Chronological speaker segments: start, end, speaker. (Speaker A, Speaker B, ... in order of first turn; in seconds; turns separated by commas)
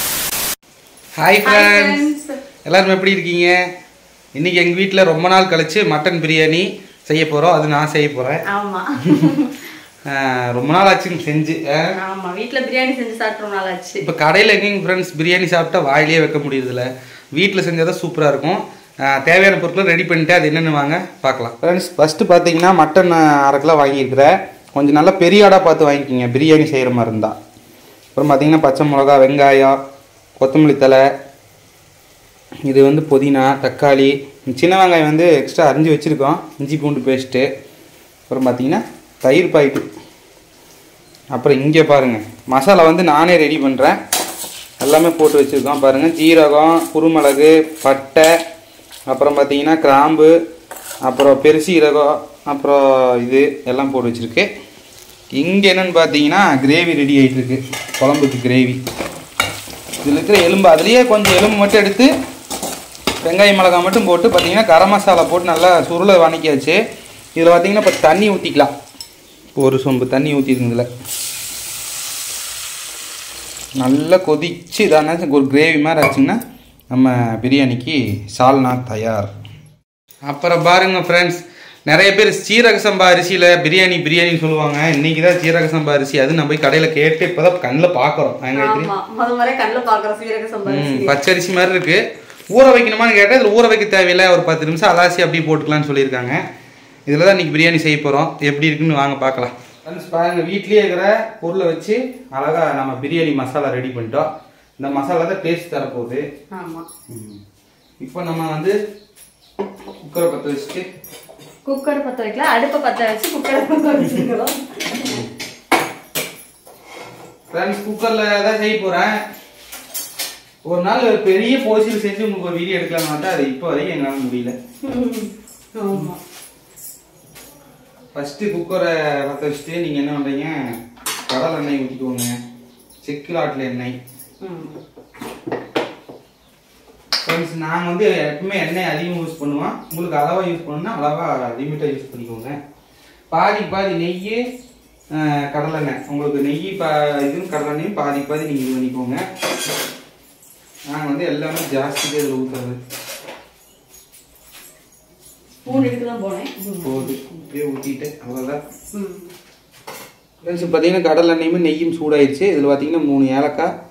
Speaker A: 1.2-2.0, Speaker B: 1.4-2.4, Speaker A: 2.6-3.5, Speaker A: 4.3-8.4, Speaker B: 8.5-9.6, Speaker A: 10.1-11.9, Speaker B: 11.9-14.1, Speaker A: 14.0-27.4, Speaker A: 28.1-29.8, Speaker A: 30.4-31.0, Speaker A: 32.7-37.5, Speaker A: 38.3-39.9, Speaker A: 41.3-44.0, Speaker A: 44.8-48.3, Speaker A: 49.1-50.3, Speaker A: 51.0-54.5, Speaker A: 55.3-58.8, Speaker A: 60.0-62.1, Speaker A: 63.2-66.8, Speaker A: 67.3-68.7, Speaker A: 69.5-70.9, Speaker A: 73.8-76.4, Speaker A: 76.9-79.3, Speaker A: 80.3-88.9, Speaker B: 88.5-91.1, Speaker A: 90.7-92.0, Speaker A: 92.5-96.4, Speaker A: 97.1-104.3, Speaker A: 104.8-106.2, Speaker B: 106.5-106.8, Speaker A: 107.1-107.4, Speaker A: 108.0-108.7, Speaker A: 110.0-110.8, Speaker B: 111.7-115.2, Speaker A: 117.5-119.1, Speaker A: 120.7-124.5, Speaker B: 124.8-126.2, Speaker A: 128.1-130.5, Speaker A: 131.3-132.3, Speaker A: 133.0-133.9, Speaker B: 134.4-134.8, Speaker A: 137.2-142.6, Speaker A: 143.3-144.4, Speaker A: 145.1-149.2, Speaker A: 150.9-152.8, Speaker B: 155.6-157.1, Speaker A: 155.7-155.9, Speaker A: 156.8-158.6, Speaker B: 158.9-159.3, Speaker A: 160.4-163.7